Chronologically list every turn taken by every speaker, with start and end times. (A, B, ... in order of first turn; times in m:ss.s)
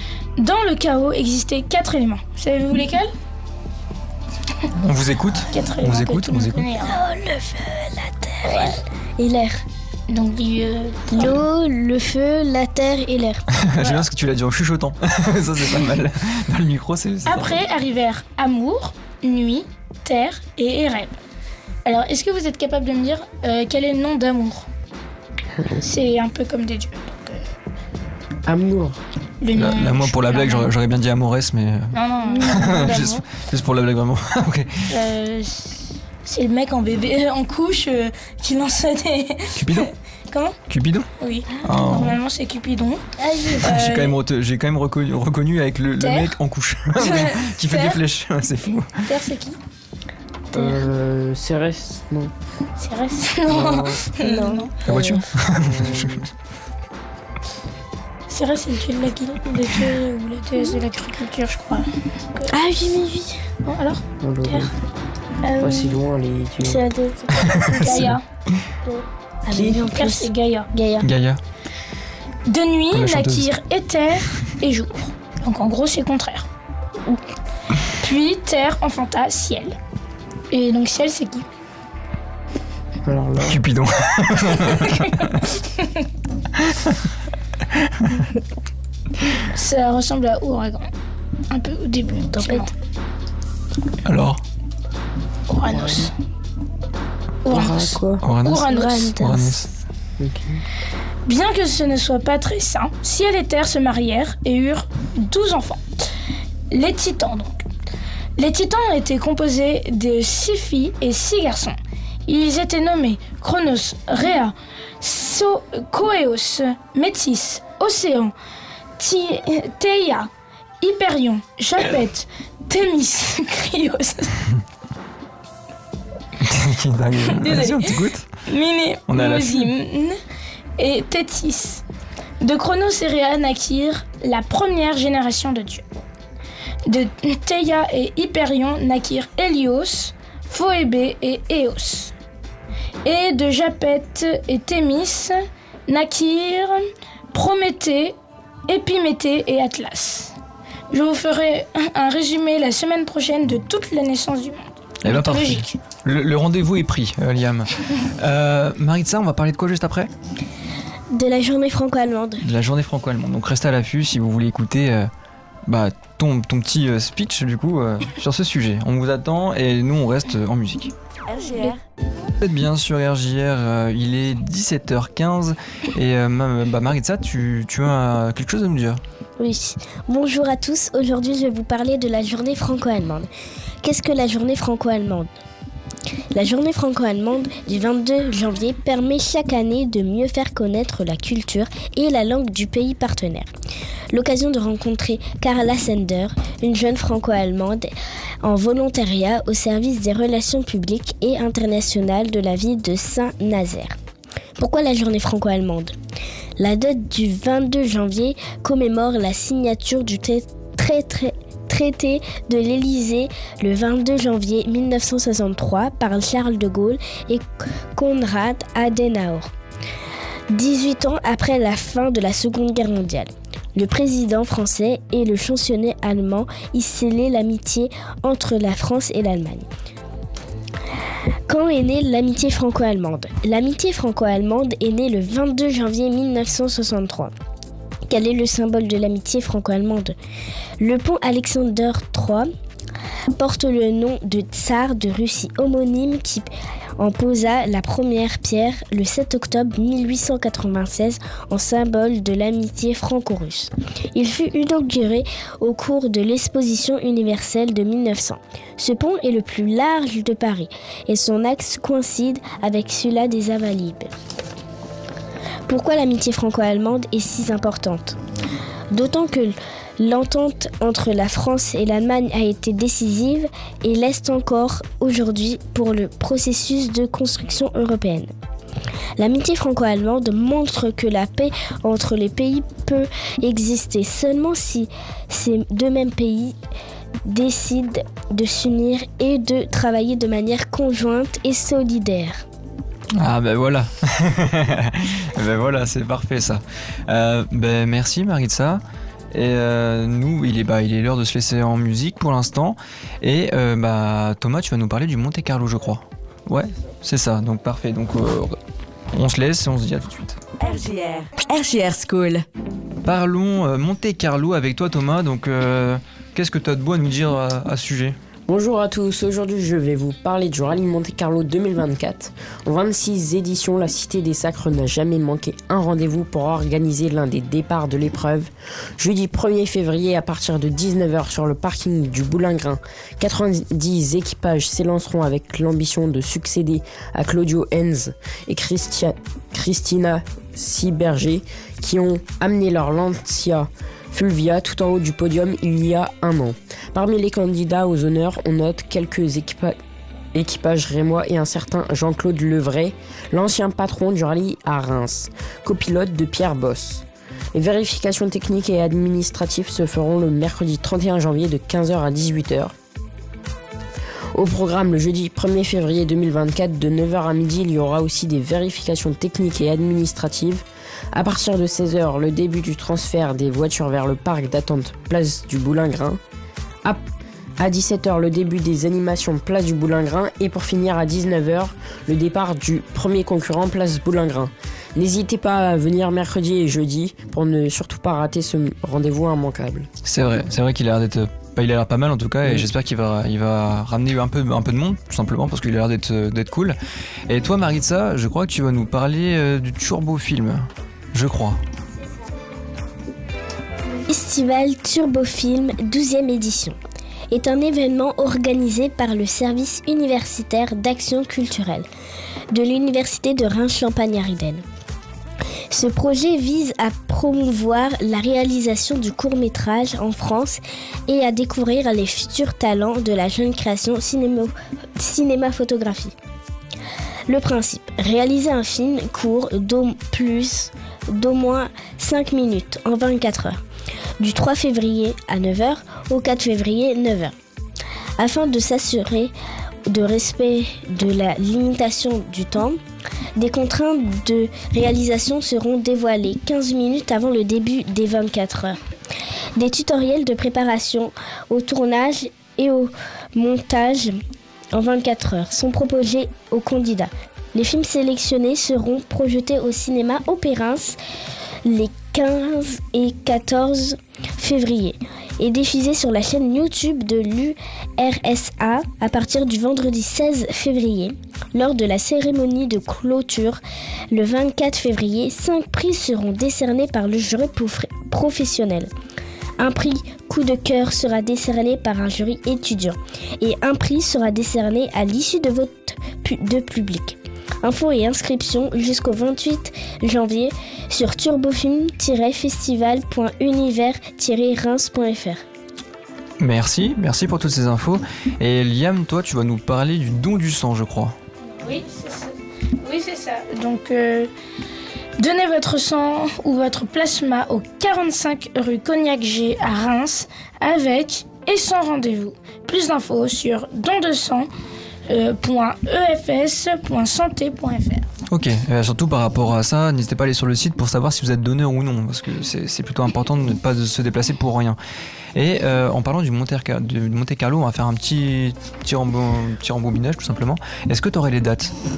0:00.4-0:03.1 A
0:04.8-0:06.7 B
0:05.5-0:07.0 A
0:06.8-0:09.6 C
0:08.5-0:08.8 A
0:10.1-0:11.4 A
0:11.1-0:13.4 C
0:13.5-0:17.6 B
0:17.2-0:21.2 A
0:21.8-0:24.7 A
0:25.8-0:27.4 A
0:28.4-0:29.0 D
0:29.4-0:30.7 A
0:29.5-0:34.7 B
0:31.9-0:33.2 A
0:34.9-0:40.6 A
0:39.5-0:39.9 B
0:40.7-0:41.1 B
0:41.2-0:44.2 A
0:41.6-0:42.2 B
0:43.6-0:48.9 B
0:46.0-0:46.4 A
0:47.0-0:48.0 A
0:49.1-0:49.6 A
0:50.5-0:52.3 D
0:50.5-0:50.8 C
0:52.8-0:54.8 A
0:53.5-0:54.0 D
0:54.2-0:54.7 C
0:54.8-0:56.2 B
0:54.9-0:56.3 D
0:58.3-1:02.5 A
1:02.5-1:03.4 C
1:03.6-1:04.6 A
1:04.2-1:04.7 D
1:05.4-1:06.0 A
1:05.6-1:06.8 D
1:06.6-1:08.2 C
1:07.4-1:08.1 B
1:07.7-1:08.2 A
1:08.8-1:11.1 C
1:09.5-1:09.8 D
1:09.7-1:10.7 A
1:11.0-1:11.4 B
1:12.4-1:16.5 A
1:12.9-1:13.5 B
1:17.8-1:19.8 A
1:20.5-1:21.4 A
1:23.0-1:23.6 D
1:23.4-1:25.4 B
1:26.6-1:27.0 B
1:27.8-1:28.2 B
1:29.4-1:30.9 A
1:31.5-1:32.7 A
1:32.4-1:32.7 C
1:34.0-1:34.4 B
1:35.5-1:36.1 A
1:35.7-1:36.0 D
1:37.4-1:39.2 A
1:37.5-1:38.2 D
1:38.2-1:39.7 B
1:38.7-1:39.7 C
1:40.2-1:40.6 D
1:41.2-1:45.8 A
1:46.7-1:47.6 A
1:48.4-1:58.3 A
1:59.0-2:00.3 A
2:00.8-2:04.4 A
2:06.4-2:08.3 B
2:07.4-2:10.2 A
2:09.1-2:09.7 B
2:10.8-2:11.8 A
2:12.4-2:15.8 A
2:16.8-2:22.1 A
2:23.0-2:25.4 A
2:25.9-2:26.8 A
2:27.3-2:28.2 A
2:28.7-2:30.3 A
2:30.9-2:35.8 A
2:35.0-2:40.1 B
2:41.1-2:42.4 C
2:42.4-2:45.1 B
2:45.7-2:50.9 B
2:51.3-2:51.8 E
2:52.4-2:59.0 B
2:59.4-3:03.3 C
3:03.8-3:05.3 C
3:06.3-3:13.5 C
3:14.1-3:17.9 C
3:18.4-3:23.9 C
3:24.6-3:25.9 C
3:26.6-3:39.5 C
3:40.5-3:49.6 C
3:51.5-3:57.3 C
3:58.1-4:00.1 C
4:00.8-4:02.5 C
4:03.3-4:24.1 C
4:25.7-4:28.2 C
4:28.9-4:38.3 C
4:39.2-4:46.6 C
4:47.2-4:52.4 C
4:53.1-4:58.8 B
4:59.3-5:08.6 B
5:09.1-5:10.4 B
5:10.6-5:12.4 E
5:13.0-5:18.2 B
5:18.5-5:49.8 D
5:50.3-6:02.7 D
6:04.3-6:16.2 D
6:17.6-6:29.9 D
6:30.0-6:36.8 B
6:37.3-6:41.6 B
6:44.1-6:46.8 C
6:47.3-6:51.8 C
6:52.5-6:54.6 C
6:55.7-7:06.1 C
7:07.3-7:13.6 C
7:14.2-7:17.3 C
7:18.2-7:19.3 C
7:19.8-7:22.8 C
7:23.4-7:28.8 C
7:29.6-7:34.2 C
7:34.7-7:41.0 C
7:41.6-7:58.9 C
7:59.6-8:15.4 C
8:16.4-8:21.1 B
8:21.5-8:24.3 A
8:25.2-8:34.5 A
8:35.1-8:38.0 A
8:38.3-8:44.8 B
8:45.3-8:51.7 B